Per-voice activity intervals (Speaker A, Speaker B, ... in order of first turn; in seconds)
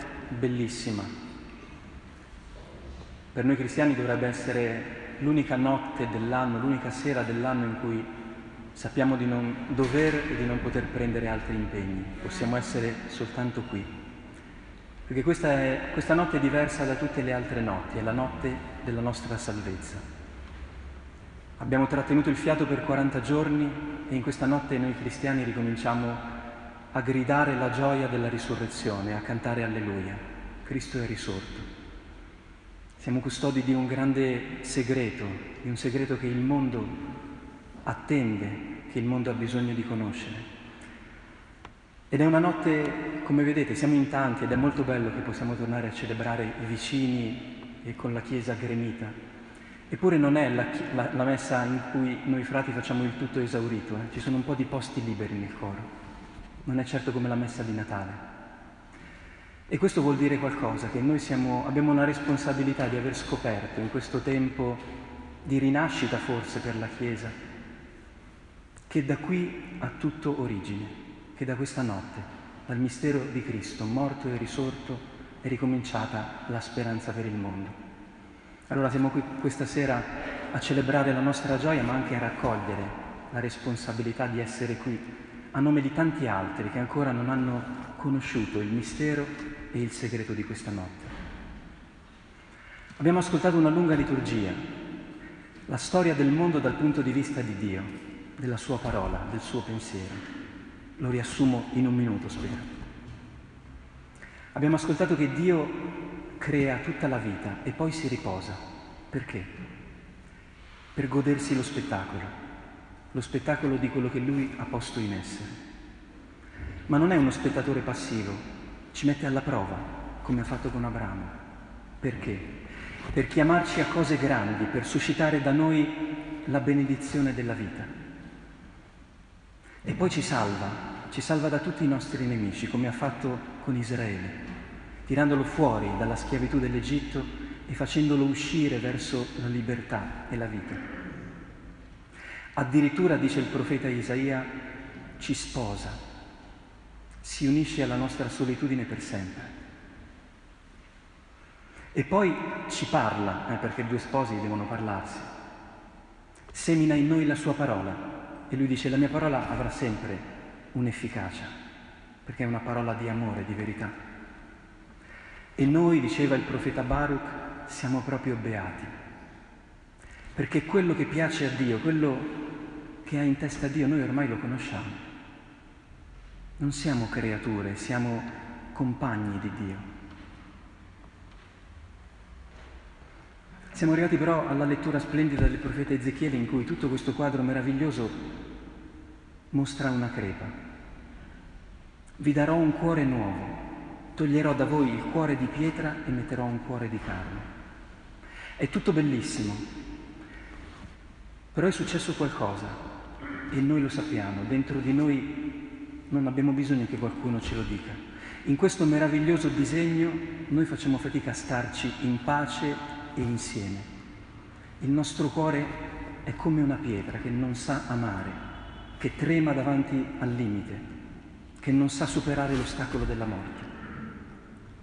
Speaker A: 0.3-1.1, 3.3-8.1, 8.7-13.9, 15.1-20.0, 21.6-26.3, 26.9-31.7, 33.0-37.0, 37.9-40.5, 42.1-49.1, 49.9-55.9, 56.6-58.2, 59.7-64.9, 65.4-67.3, 68.9-77.8, 78.7-91.1, 93.0-94.6, 95.7-100.2, 101.0-102.7, 104.5-108.6, 109.1-109.5, 111.0-112.3, 113.1-115.6, 116.9-121.3, 122.0-122.5, 123.1-127.9, 129.8-134.4, 135.1-140.8, 142.6-144.5, 145.2-146.0, 147.2-149.5, 151.9-155.3, 156.5-161.5, 162.2-164.0, 165.6-168.9, 170.3-172.5, 173.0-175.0, 176.6-179.9, 183.7-188.2, 189.5-190.6, 192.2-197.5, 198.6-199.7, 201.5-202.8, 203.5-213.9, 214.8-218.4, 219.0-220.8, 221.6-223.7